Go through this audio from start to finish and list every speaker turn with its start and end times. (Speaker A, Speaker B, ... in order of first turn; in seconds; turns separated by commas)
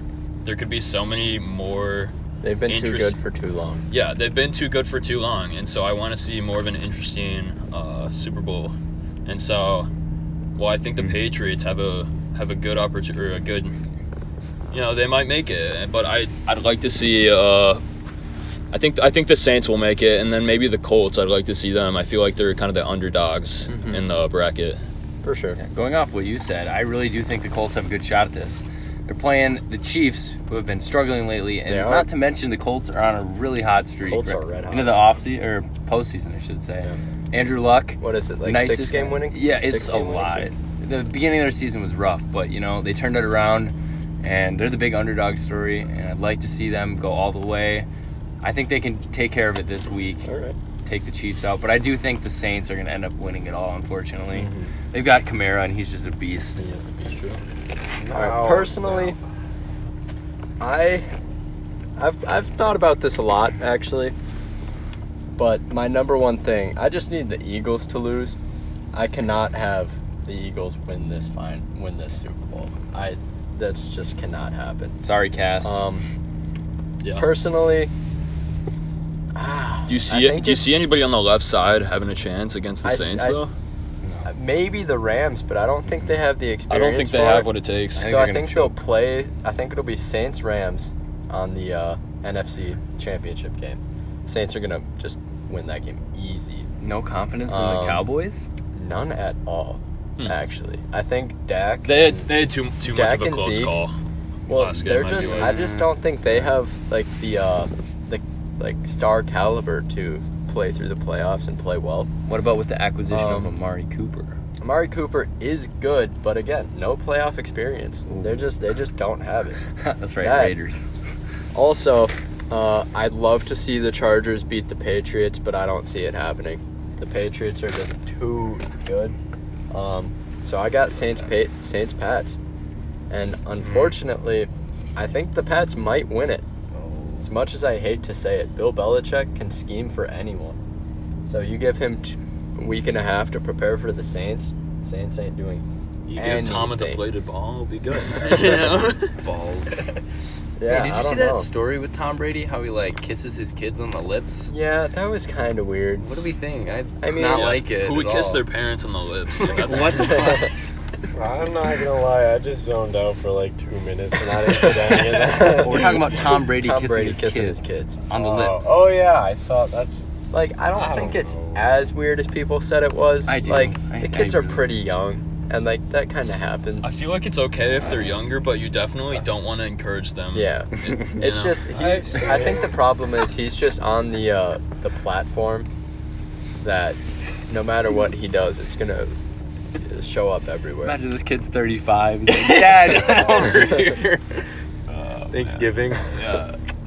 Speaker A: 0.4-2.1, Speaker B: 2.4-3.8, Speaker A: 2.7-3.1, Speaker A: 3.9-8.7, Speaker A: 9.2-9.9, Speaker A: 10.6-13.8, Speaker A: 14.7-17.8, Speaker A: 18.7-24.8, Speaker B: 23.7-24.0, Speaker B: 25.2-25.6, Speaker C: 25.6-47.9, Speaker B: 31.7-32.1, Speaker B: 34.0-35.1, Speaker B: 38.0-40.5, Speaker C: 48.4-50.3, Speaker B: 50.2-50.6, Speaker C: 50.8-56.6, Speaker B: 54.3-54.7, Speaker B: 56.6-57.4, Speaker D: 58.0-59.2, Speaker B: 58.1-59.2, Speaker B: 60.6-61.1, Speaker B: 62.0-64.1, Speaker B: 65.3-68.4, Speaker B: 68.9-75.0, Speaker C: 75.0-75.8, Speaker B: 75.6-76.0, Speaker A: 77.0-77.3, Speaker B: 77.1-77.9, Speaker B: 79.3-80.8, Speaker A: 79.9-83.5, Speaker B: 82.8-83.4, Speaker C: 84.0-84.3, Speaker B: 84.2-96.7, Speaker A: 86.7-88.0, Speaker C: 88.0-88.8, Speaker C: 96.8-98.5, Speaker B: 97.5-98.0, Speaker B: 98.7-102.3, Speaker A: 101.8-103.9, Speaker B: 102.8-103.8, Speaker B: 104.5-112.1, Speaker A: 104.5-105.6, Speaker C: 105.1-106.5, Speaker C: 112.3-114.4, Speaker B: 113.1-113.5, Speaker B: 114.6-119.6, Speaker C: 118.1-118.5, Speaker C: 119.7-120.8, Speaker B: 120.2-120.5, Speaker B: 121.5-129.2, Speaker B: 129.7-132.4, Speaker B: 133.1-136.4, Speaker C: 136.7-137.3, Speaker B: 137.2-140.6, Speaker B: 141.2-145.6, Speaker A: 146.1-149.1, Speaker B: 146.2-147.0, Speaker B: 148.3-148.6, Speaker C: 149.1-149.8, Speaker B: 150.6-151.5, Speaker C: 150.7-154.5, Speaker B: 154.5-156.0, Speaker C: 156.0-158.4, Speaker B: 157.0-157.6, Speaker A: 157.3-160.2, Speaker C: 159.5-160.5, Speaker D: 159.7-160.5, Speaker B: 160.0-160.5, Speaker D: 161.1-166.0, Speaker A: 164.5-164.9, Speaker B: 164.9-168.0, Speaker C: 165.4-168.9, Speaker D: 168.1-170.1, Speaker B: 170.3-176.9, Speaker D: 170.7-171.7, Speaker C: 173.3-174.7, Speaker A: 176.8-181.6, Speaker B: 180.3-185.7, Speaker D: 181.7-182.8, Speaker B: 186.6-189.2, Speaker B: 189.8-191.0, Speaker C: 190.8-194.1, Speaker A: 192.3-194.2, Speaker B: 193.1-193.5, Speaker A: 194.9-196.6, Speaker B: 195.3-196.1